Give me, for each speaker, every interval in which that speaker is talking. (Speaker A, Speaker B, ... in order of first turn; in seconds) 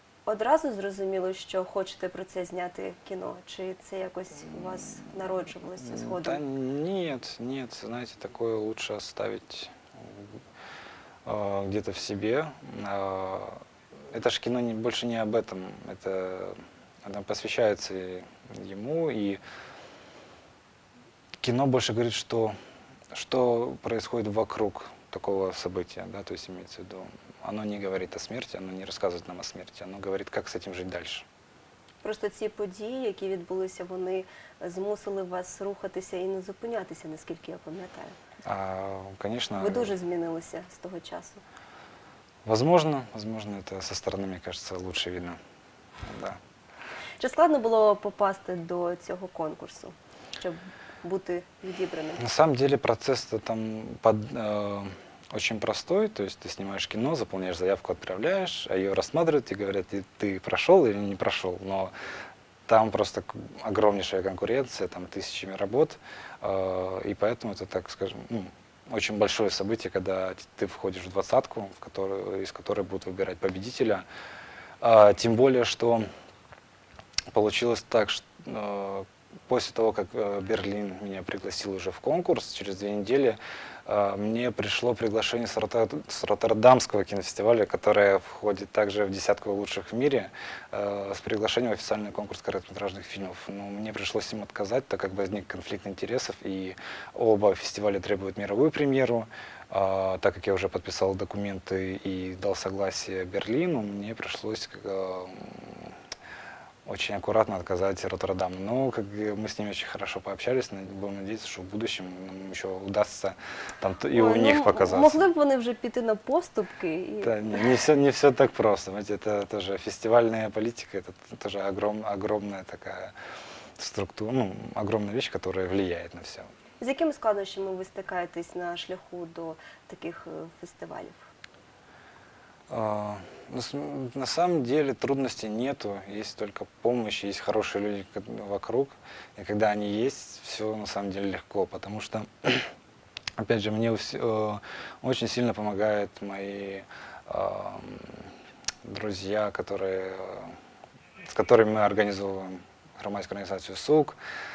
Speaker A: 0.3-6.4, 32.0-38.2, 39.5-41.4, 47.2-52.2, 114.1-117.7, 126.8-131.3
Speaker B: 5.8-10.3, 11.3-13.6, 14.1-19.4, 21.4-22.6, 23.1-31.3, 38.5-39.9, 42.5-45.4, 46.1-46.4, 52.2-61.9, 62.7-74.1, 74.8-76.1, 77.3-105.9, 106.9-115.2, 117.2-123.1, 123.8-126.5, 132.7-142.7, 143.4-148.2, 148.8-150.6, 151.3-154.2